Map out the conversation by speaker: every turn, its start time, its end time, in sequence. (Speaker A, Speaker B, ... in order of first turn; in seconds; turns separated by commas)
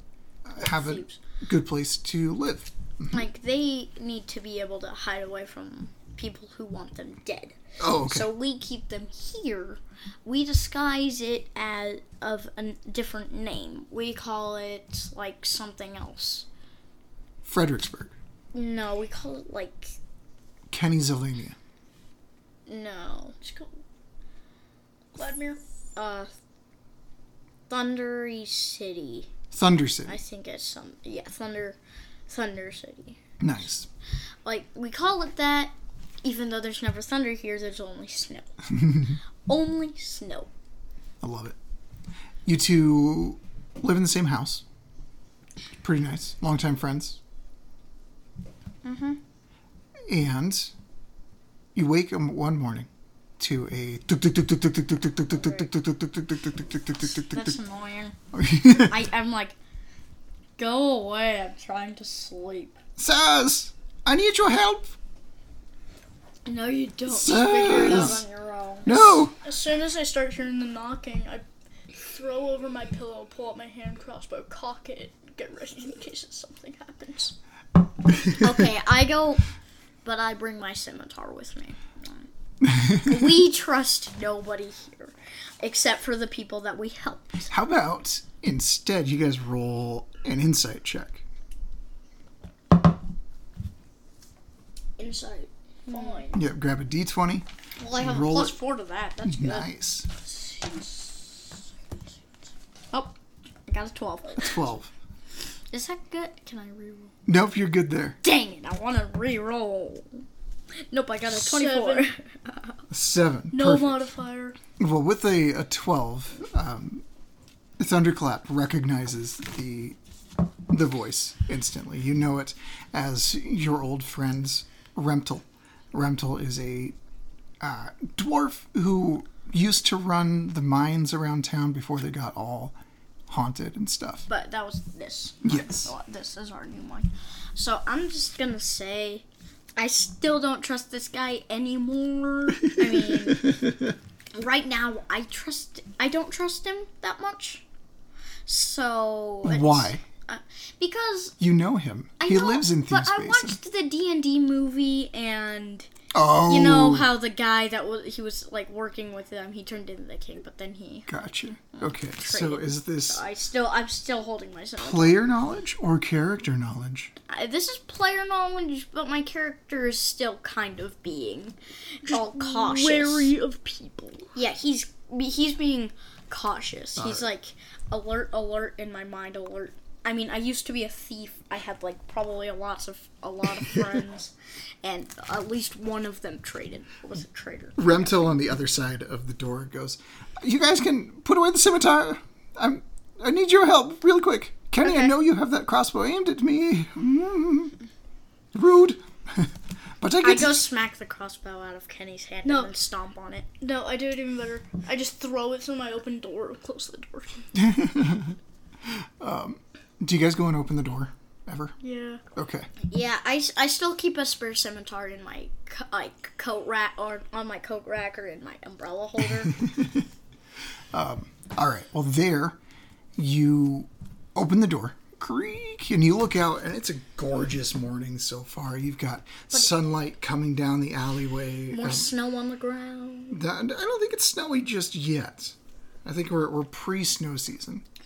Speaker A: 0.5-3.3, Speaker B: 0.6-1.2, Speaker B: 3.1-16.5, Speaker A: 7.8-8.3, Speaker A: 17.4-18.1, Speaker B: 18.5-20.0, Speaker A: 20.7-21.6, Speaker B: 22.7-23.4, Speaker C: 23.4-23.7, Speaker C: 25.1-25.6, Speaker B: 25.9-26.3, Speaker B: 27.7-29.3, Speaker A: 29.5-30.2, Speaker B: 30.1-33.2, Speaker A: 33.4-33.9, Speaker B: 34.5-38.6, Speaker A: 38.8-39.2, Speaker B: 39.5-40.5, Speaker A: 41.2-41.6, Speaker A: 42.5-44.6, Speaker A: 45.8-47.2, Speaker B: 48.8-49.2, Speaker A: 50.1-50.7, Speaker A: 51.8-52.9, Speaker A: 53.4-57.6, Speaker B: 55.4-55.7, Speaker B: 57.1-58.2, Speaker A: 58.3-59.0, Speaker B: 58.7-59.6, Speaker B: 60.6-62.8, Speaker A: 63.0-65.0, Speaker B: 66.5-69.2, Speaker A: 67.1-68.2, Speaker A: 68.9-69.3, Speaker C: 69.4-71.4, Speaker C: 72.0-77.3, Speaker B: 78.3-79.4, Speaker B: 80.0-87.5, Speaker A: 82.8-83.1, Speaker A: 87.5-91.2, Speaker B: 95.0-96.4, Speaker C: 95.9-96.4, Speaker A: 96.3-98.6, Speaker B: 97.8-99.7, Speaker A: 99.2-100.1, Speaker B: 100.3-101.2, Speaker B: 103.7-104.6, Speaker A: 104.4-104.9, Speaker B: 105.7-107.1, Speaker A: 107.3-108.2, Speaker B: 108.2-110.2, Speaker B: 110.9-112.8, Speaker C: 111.3-112.1, Speaker A: 112.9-114.1, Speaker C: 113.5-114.6, Speaker A: 114.8-117.0, Speaker A: 117.8-120.0, Speaker A: 120.7-127.0, Speaker A: 127.6-132.8, Speaker A: 133.3-134.3, Speaker B: 134.3-139.2, Speaker A: 135.4-135.9, Speaker B: 139.8-143.6, Speaker A: 142.8-143.9, Speaker B: 144.3-147.6, Speaker B: 148.5-151.4, Speaker A: 149.4-150.0, Speaker A: 151.4-153.6, Speaker B: 152.2-155.9, Speaker A: 156.1-157.1, Speaker B: 156.4-161.1, Speaker A: 161.1-163.2, Speaker B: 161.8-165.2, Speaker A: 164.8-167.1, Speaker B: 167.3-173.3, Speaker C: 172.1-174.3, Speaker B: 174.3-184.3, Speaker A: 177.0-177.3, Speaker B: 184.8-188.3, Speaker A: 187.8-197.7, Speaker B: 194.8-195.1, Speaker A: 198.5-200.7, Speaker B: 200.2-203.5, Speaker C: 202.4-202.7, Speaker C: 203.6-207.4, Speaker A: 207.5-211.8, Speaker C: 211.8-212.2, Speaker A: 212.3-212.7, Speaker B: 212.9-219.6, Speaker A: 219.5-220.1, Speaker A: 220.9-222.6, Speaker A: 223.2-232.1, Speaker B: 231.7-233.4, Speaker A: 233.3-237.8